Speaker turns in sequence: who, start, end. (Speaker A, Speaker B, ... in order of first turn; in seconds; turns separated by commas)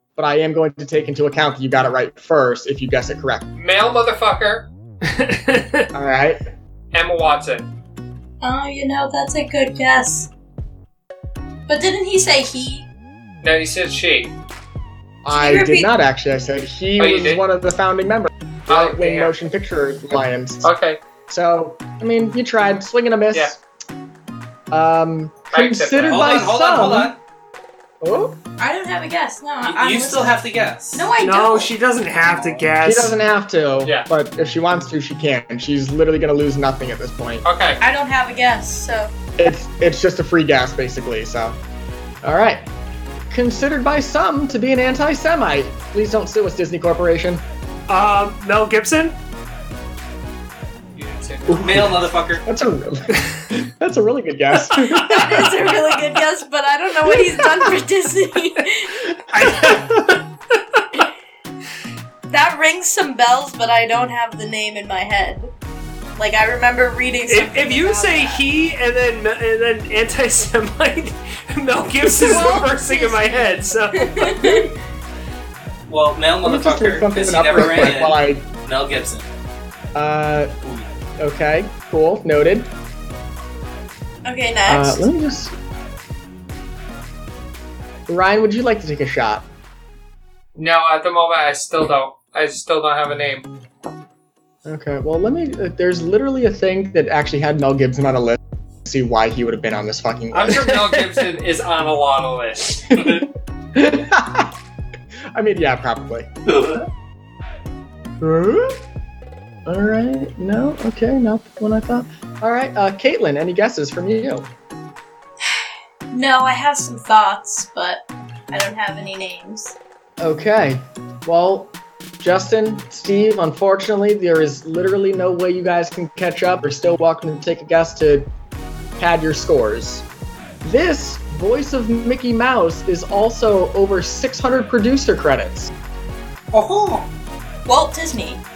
Speaker A: 0.2-3.5, Speaker B: 3.6-4.7, Speaker C: 5.0-5.9, Speaker A: 5.9-6.4, Speaker B: 6.9-7.7, Speaker D: 8.4-10.3, Speaker D: 11.7-12.9, Speaker B: 13.4-14.3, Speaker A: 15.2-20.7, Speaker D: 15.3-15.9, Speaker B: 17.0-17.4, Speaker B: 18.7-19.3, Speaker B: 20.6-21.0, Speaker A: 21.3-23.6, Speaker A: 24.7-27.1, Speaker B: 25.5-26.3, Speaker E: 26.0-27.2, Speaker A: 28.0-28.4, Speaker D: 28.6-31.7, Speaker E: 29.6-31.1, Speaker C: 31.2-33.2, Speaker E: 32.2-32.7, Speaker A: 32.8-37.4, Speaker B: 37.4-37.8, Speaker D: 37.8-39.1, Speaker A: 39.4-41.6, Speaker A: 42.2-42.7, Speaker A: 43.3-47.4, Speaker C: 47.9-49.1, Speaker B: 51.0-51.8, Speaker A: 51.5-55.8, Speaker E: 51.6-52.4, Speaker D: 54.9-59.1, Speaker A: 57.1-57.7, Speaker C: 59.3-60.1, Speaker A: 59.3-60.2, Speaker D: 62.3-65.5, Speaker D: 66.2-68.4, Speaker C: 67.3-74.7, Speaker D: 72.2-74.7, Speaker A: 72.2-72.7, Speaker E: 75.9-79.3, Speaker A: 76.4-78.5, Speaker A: 80.0-80.5, Speaker E: 80.6-80.9, Speaker A: 81.2-82.7, Speaker D: 84.2-85.0, Speaker A: 84.7-85.5, Speaker A: 88.1-89.5, Speaker B: 90.6-93.5, Speaker A: 94.7-100.8, Speaker B: 100.3-102.8, Speaker E: 102.9-103.3, Speaker A: 102.9-104.5, Speaker A: 105.3-106.3, Speaker E: 106.5-106.9, Speaker A: 108.2-108.8, Speaker A: 109.7-114.5, Speaker D: 116.1-119.8, Speaker A: 120.2-128.3, Speaker A: 129.0-130.1, Speaker A: 130.6-135.7, Speaker E: 136.5-137.1, Speaker D: 137.7-138.4